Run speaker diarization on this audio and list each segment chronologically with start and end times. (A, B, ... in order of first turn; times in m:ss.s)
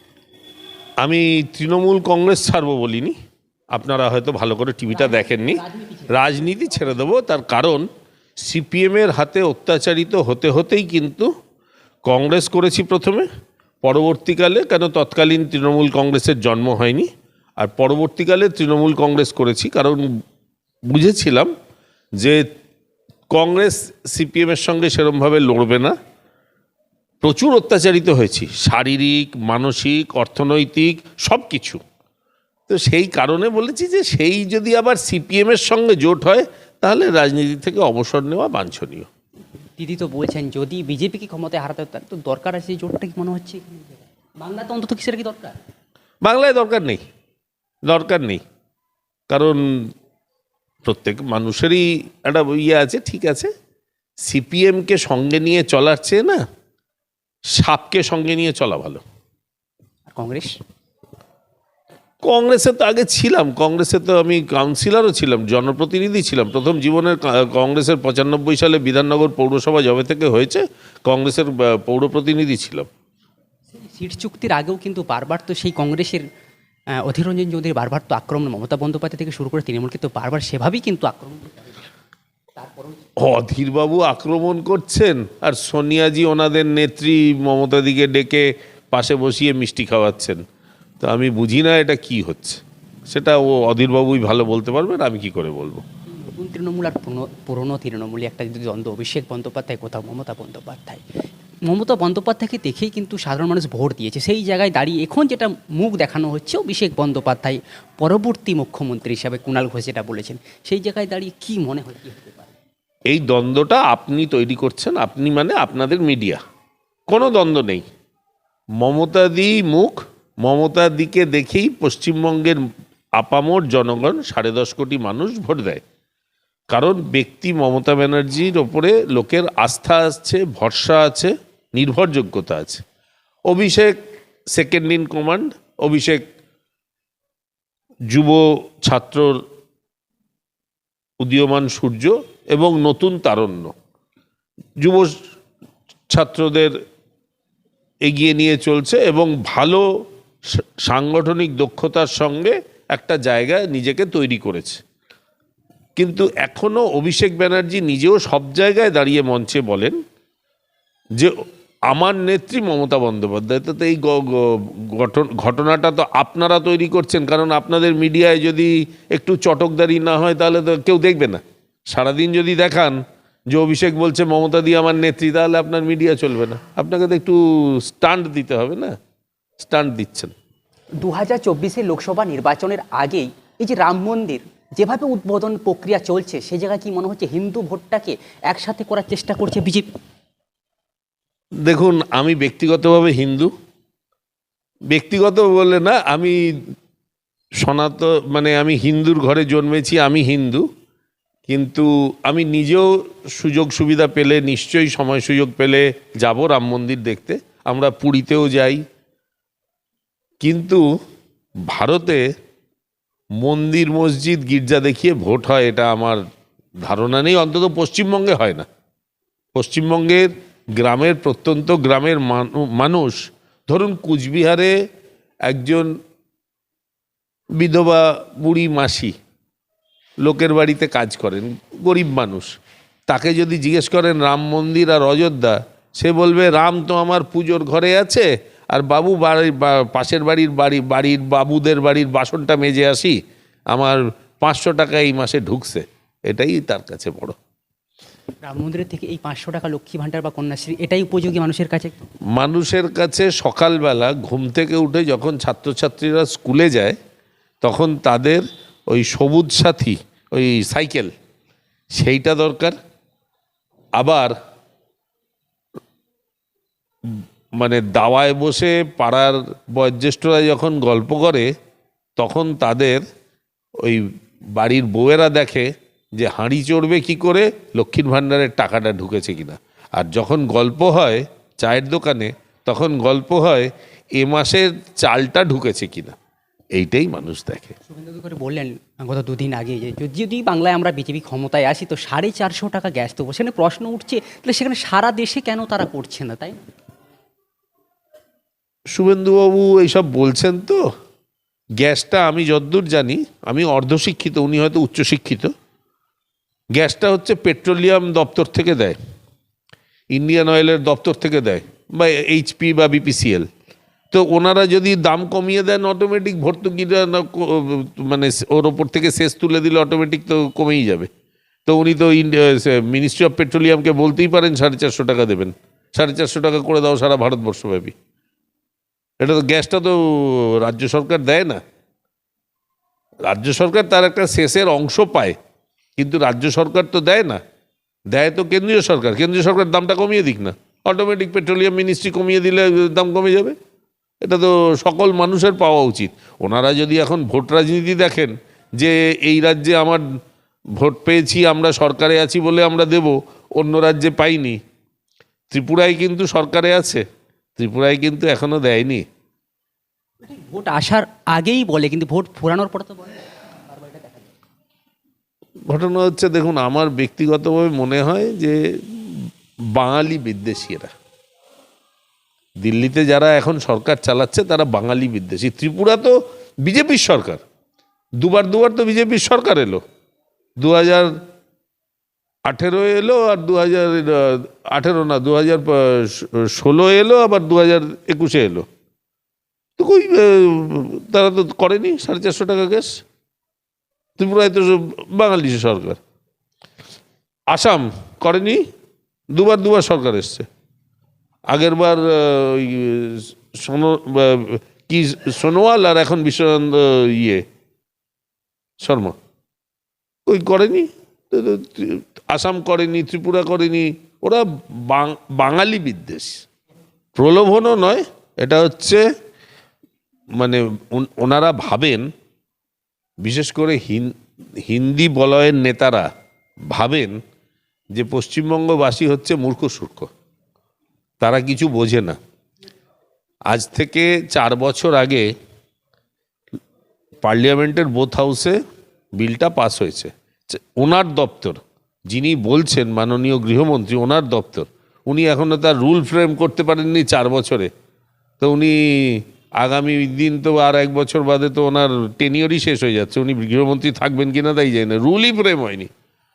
0:01.0-0:03.1 A
0:03.7-0:07.8 A
0:04.9-0:06.1 B
0:08.4-0:11.3 A
0:12.0-0:13.3 A
0:13.8-0:20.1 A
0:20.9-0:21.5 A
0:22.2-0:22.4 A
0:23.3-0:25.9 A
0:27.2-0:31.8 A
0:32.7-0:39.1 A
0:39.8-0:45.6 B
0:46.2-0:47.0 A
0:47.8-0:48.4 A
0:49.3-0:49.9 A
0:50.8-0:53.5 A
0:54.2-0:56.4 A
0:57.5-0:59.0 A
1:00.1-1:00.5 B
1:02.2-1:12.9 A
1:13.7-1:16.2 B
1:16.9-1:21.8 B
1:22.6-1:23.0 B
1:23.2-1:30.4 A
1:31.0-1:35.8 A
1:36.1-1:41.0 B
1:41.7-1:52.5 B
1:53.1-1:56.4 A
1:57.1-1:57.9 A
1:58.8-2:02.6 A
2:03.2-2:05.8 A
2:06.7-2:12.8 A
2:13.5-2:14.0 A
2:14.5-2:16.2 A
2:18.1-2:19.3 A
2:21.2-2:23.7 A
2:24.8-2:25.1 A
2:26.1-2:26.7 A
2:28.0-2:29.8 A
2:30.5-2:34.8 A
2:36.0-2:40.0 A
2:41.9-2:58.9 A
2:59.6-3:00.3 A
3:01.0-3:09.9 B
3:11.6-3:13.5 A
3:14.9-3:16.6 A
3:17.6-3:20.6 A
3:21.5-3:28.8 A
3:30.4-3:30.8 A
3:31.7-3:32.2 A
3:33.4-3:36.2 A
3:36.8-3:38.6 A
3:39.5-3:44.7 A
3:45.4-3:45.9 A
3:47.6-3:49.1 A
3:50.2-3:52.5 A
3:53.1-4:03.2 A
4:03.7-4:07.4 A
4:08.4-4:12.0 B
4:12.3-4:17.0 A
4:17.6-4:21.1 A
4:22.0-4:22.8 A
4:24.0-4:24.3 A
4:27.0-4:31.5 A
4:32.2-4:33.0 A
4:33.8-4:46.2 A
4:46.7-4:47.7 A
4:47.9-4:56.6 B
4:58.9-5:00.8 A
5:01.8-5:05.5 A
5:06.7-5:09.0 A
5:10.1-5:13.4 A
5:14.1-5:21.1 A
5:21.6-5:27.9 A
5:29.2-5:31.6 A
5:33.3-5:35.4 A
5:36.0-5:37.4 A
5:38.1-5:43.6 A
5:44.2-5:50.0 A
5:50.8-5:54.6 A
5:55.5-5:57.0 A
5:57.6-5:59.0 A
6:00.2-6:04.3 B
6:05.7-6:10.9 A
6:12.6-6:17.4 A
6:18.2-6:19.8 A
6:20.6-6:21.1 A
6:22.5-6:28.6 A
6:29.8-6:33.0 A
6:34.2-6:36.0 A
6:37.5-6:38.6 A
6:39.3-6:40.5 A
6:41.5-6:47.4 A
6:48.8-6:49.2 A
6:50.2-6:56.4 A
6:57.2-6:59.0 A
7:00.4-7:02.1 A
7:03.2-7:04.1 A
7:04.6-7:06.1 A
7:06.7-7:07.2 A
7:07.9-7:10.1 A
7:11.2-7:12.2 A
7:13.5-7:15.2 A
7:17.2-7:18.6 A
7:19.2-7:27.7 A
7:28.4-7:35.9 A